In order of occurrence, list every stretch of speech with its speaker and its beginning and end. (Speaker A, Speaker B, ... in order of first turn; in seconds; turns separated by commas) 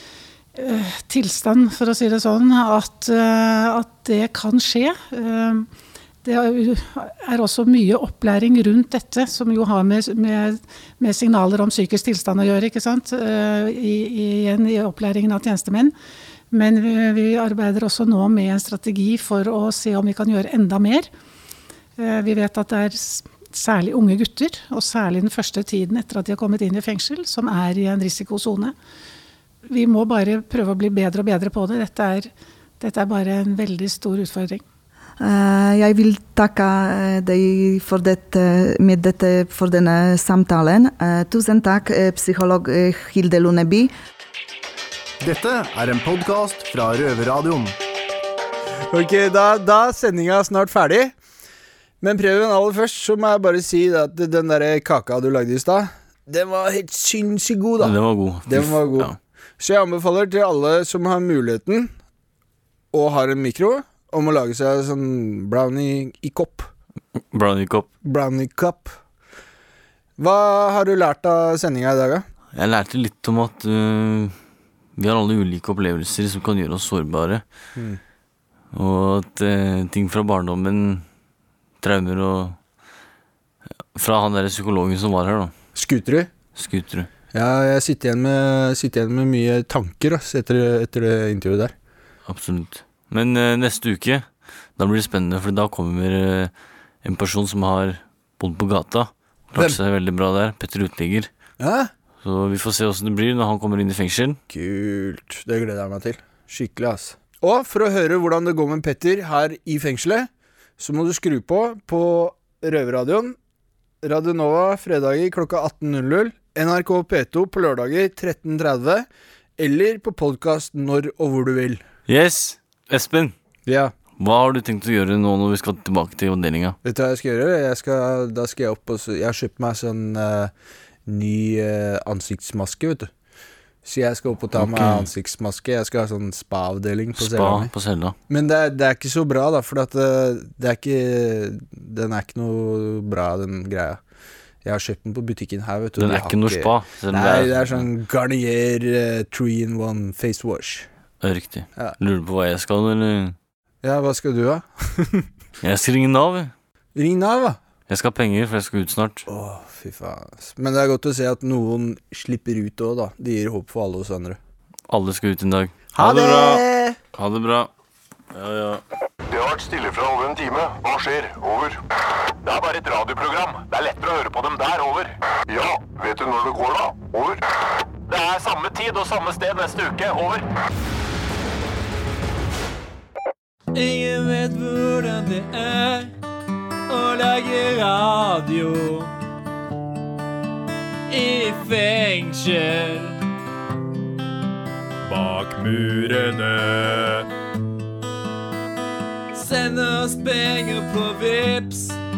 Speaker A: 0.6-5.7, Speaker A: 6.2-15.9, Speaker A: 16.5-21.1, Speaker A: 22.0-28.8, Speaker A: 29.7-34.6, Speaker B: 35.2-43.9, Speaker C: 45.2-47.8, Speaker D: 48.9-51.1, Speaker D: 52.0-61.9, Speaker E: 57.8-59.1, Speaker D: 62.9-66.7, Speaker E: 67.2-67.9, Speaker D: 68.0-69.0, Speaker D: 70.2-72.3, Speaker E: 72.5-74.4, Speaker E: 75.0-77.4, Speaker E: 78.7-81.1, Speaker E: 81.8-82.6, Speaker E: 83.9-85.5, Speaker D: 85.8-86.3, Speaker E: 86.5-87.1, Speaker D: 87.3-91.7, Speaker E: 92.3-101.3, Speaker D: 99.5-99.8, Speaker D: 101.6-101.9, Speaker E: 102.2-104.4, Speaker D: 104.5-113.4, Speaker D: 114.0-119.1, Speaker D: 119.6-121.8, Speaker E: 122.1-123.3, Speaker D: 123.7-123.9, Speaker E: 124.2-126.8, Speaker D: 126.8-130.5, Speaker D: 131.1-133.1, Speaker D: 133.8-137.7, Speaker E: 134.6-135.0, Speaker E: 137.2-138.2, Speaker D: 138.3-144.0, Speaker D: 144.6-150.9, Speaker E: 146.0-147.8, Speaker E: 151.2-153.4, Speaker D: 153.8-155.3, Speaker E: 155.6-156.5, Speaker D: 156.9-157.6, Speaker E: 157.9-159.3, Speaker D: 159.3-164.4, Speaker E: 164.9-167.7, Speaker D: 166.0-166.9, Speaker E: 168.3-168.8, Speaker F: 169.3-171.8, Speaker F: 172.4-177.4, Speaker F: 178.1-180.5, Speaker G: 183.7-186.1, Speaker G: 186.9-189.1, Speaker G: 191.1-193.2, Speaker G: 195.1-197.2, Speaker G: 199.3-202.0